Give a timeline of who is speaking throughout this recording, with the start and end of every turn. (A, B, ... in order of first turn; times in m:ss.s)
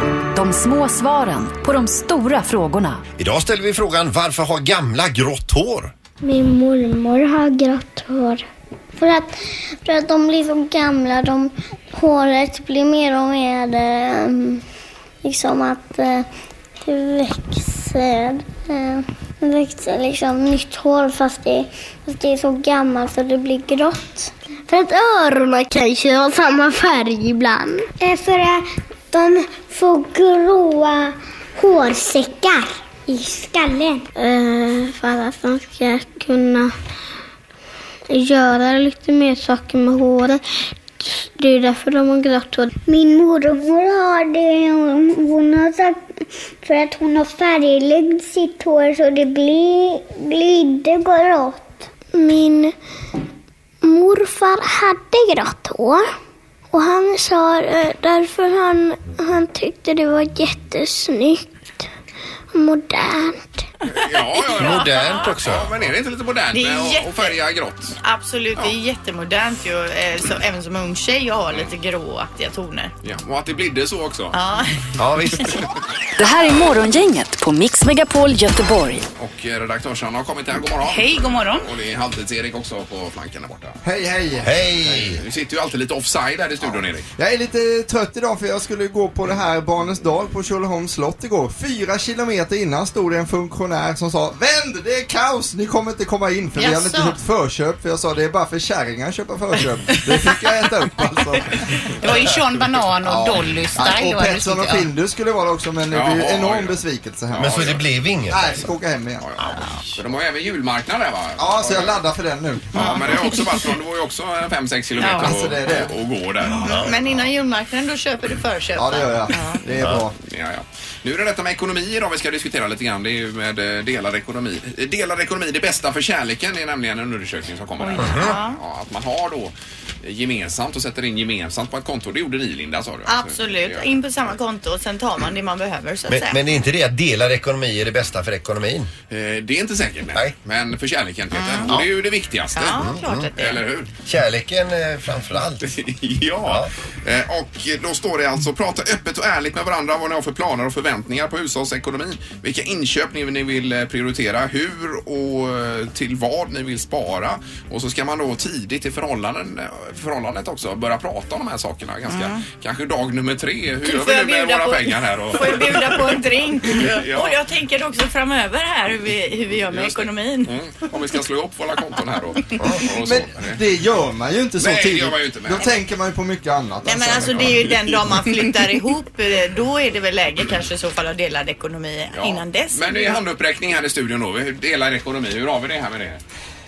0:00.3-0:03.0 A
0:03.2-0:05.9 B
0:06.2-0:08.4 C
0:09.0-0:14.6 C
0:15.2-0:16.3 C
0:16.8-0:36.7 C
0:38.1-0:40.4 C
0:41.0-0:52.7 C
0:53.8-0:56.1 C
0:56.7-1:01.4 C
1:02.5-1:03.6 C
1:03.9-1:08.0 D
1:04.3-1:05.3 E
1:04.6-1:05.8 B
1:06.5-1:07.4 E
1:08.0-1:12.9 E
1:13.0-1:14.4 D
1:14.3-1:14.8 E
1:15.0-1:15.6 B
1:16.2-1:19.0 A
1:19.2-1:23.8 D
1:20.8-1:21.7 F
1:23.8-1:25.0 G
1:24.4-1:25.2 B
1:25.1-1:27.1 D
1:27.2-1:41.6 G
1:36.6-1:37.2 E
1:42.0-1:44.9 F
1:43.0-1:47.6 G
1:45.9-1:47.8 D
1:47.4-1:48.7 B
1:48.3-1:49.2 G
1:49.2-1:52.0 D
1:49.4-1:49.9 B
1:51.4-1:53.4 G
1:52.7-1:56.8 D
1:52.7-1:53.2 E
1:55.1-1:55.9 G
1:56.6-1:59.6 E
1:56.6-1:57.0 B
1:58.8-2:00.2 G
2:00.2-2:13.9 D
2:07.8-2:08.6 E
2:08.0-2:08.4 B
2:13.1-2:16.4 E
2:16.1-2:18.9 B
2:19.1-2:22.8 D
2:21.3-2:21.8 E
2:22.5-2:23.6 E
2:22.7-2:23.3 B
2:23.4-2:23.9 D
2:24.0-2:25.7 B
2:25.6-2:47.4 D
2:26.4-2:26.7 B
2:42.1-2:42.4 E
2:43.8-2:50.6 E
2:49.7-2:53.6 D
2:52.9-2:57.7 G
2:54.6-2:55.8 D
2:56.8-3:03.2 E
3:02.1-3:06.2 D